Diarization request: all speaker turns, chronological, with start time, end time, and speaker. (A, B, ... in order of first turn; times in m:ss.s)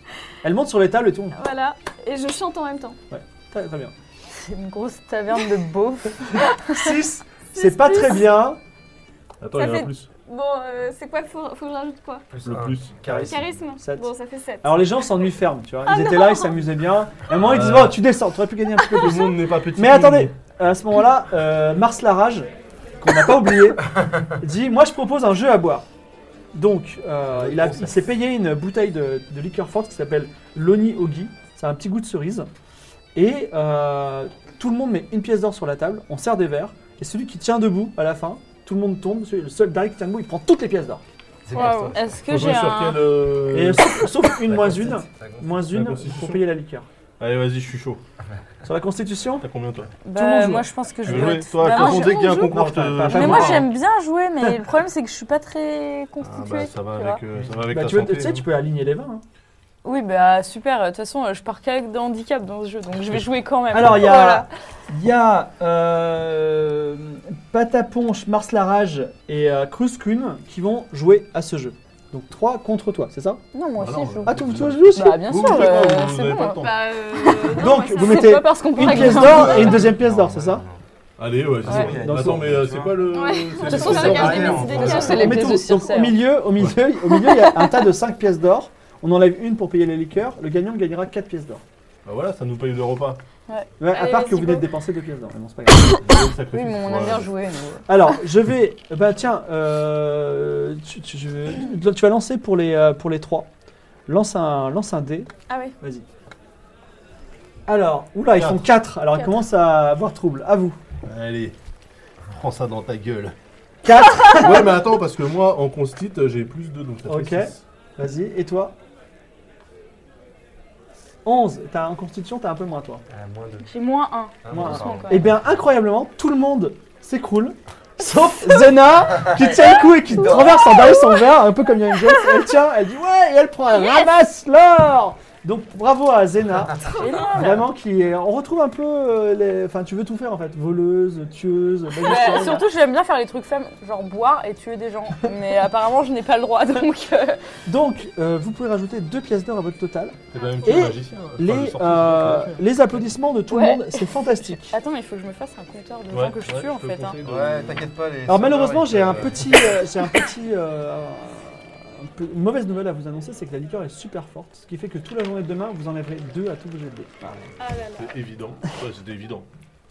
0:00.4-0:01.4 A
0:01.3-0:03.0 B
0:03.1-0:03.9 A
0:04.3-0:06.6 C
0:06.7-0:08.6 A
0:07.5-0:08.3 B
0:09.4-0:10.1 D
0:09.5-0:12.3 B
0:12.3-0:13.6 E
0:12.4-0:13.1 D
0:13.0-0:14.1 A
0:13.2-0:14.9 B
0:14.6-0:22.5 A
0:15.8-0:16.5 B
0:17.3-0:18.0 D
0:19.0-0:20.3 D
0:19.0-0:19.4 B
0:23.0-0:25.8 A
0:26.5-0:32.5 A
0:27.3-0:28.1 D
0:33.1-0:41.0 A
0:41.4-0:42.0 E
0:41.5-0:42.0 B
0:41.6-0:44.2 D
0:41.9-0:43.1 C
0:43.5-0:46.9 A
0:44.5-0:45.7 E
0:45.6-0:46.5 D
0:47.2-0:48.0 D
0:48.6-0:49.5 A
0:49.4-0:50.0 D
0:50.0-0:57.2 C
0:50.1-0:53.7 A
0:51.0-0:53.8 D
0:56.2-0:58.5 D
0:57.7-0:59.2 A
0:59.8-1:04.5 C
1:03.7-1:13.4 A
1:13.5-1:14.4 C
1:13.7-1:16.9 D
1:14.2-1:15.2 A
1:14.9-1:16.6 C
1:16.4-1:19.1 B
1:17.3-1:19.7 C
1:17.5-1:20.6 A
1:19.1-1:20.8 E
1:21.2-1:25.4 D
1:21.6-1:23.2 E
1:21.6-1:22.0 C
1:23.1-1:25.6 B
1:23.7-1:26.2 C
1:23.7-1:25.3 E
1:25.0-1:31.6 A
1:26.6-1:26.9 D
1:27.1-1:27.9 C
1:32.0-1:33.2 D
1:33.8-1:36.0 A
1:33.9-1:34.7 B
1:36.0-1:37.4 D
1:36.5-1:38.0 C
1:37.9-1:43.5 A
1:44.1-1:46.0 A
1:45.5-1:45.7 B
1:47.7-1:50.8 A
1:48.3-1:48.6 D
1:49.1-1:49.4 B
1:51.0-1:51.6 D
1:52.3-1:53.3 D
1:53.8-1:54.7 A
1:54.3-1:57.6 D
1:57.1-1:58.7 A
2:01.2-2:03.0 A
2:03.1-2:03.7 E
2:03.7-2:05.3 C
2:04.4-2:05.6 E
2:04.5-2:22.7 A
2:10.1-2:11.0 C
2:13.8-2:14.0 C
2:16.8-2:17.5 B
2:17.0-2:17.7 C
2:22.0-2:27.4 C
2:27.6-2:34.7 A
2:30.3-2:32.7 D
2:30.4-2:30.9 B
2:33.5-2:37.2 C
2:36.1-2:38.0 D
2:37.2-2:39.7 E
2:38.2-2:47.5 A
2:39.0-2:39.4 D
2:47.6-2:48.2 B
2:48.0-2:49.5 D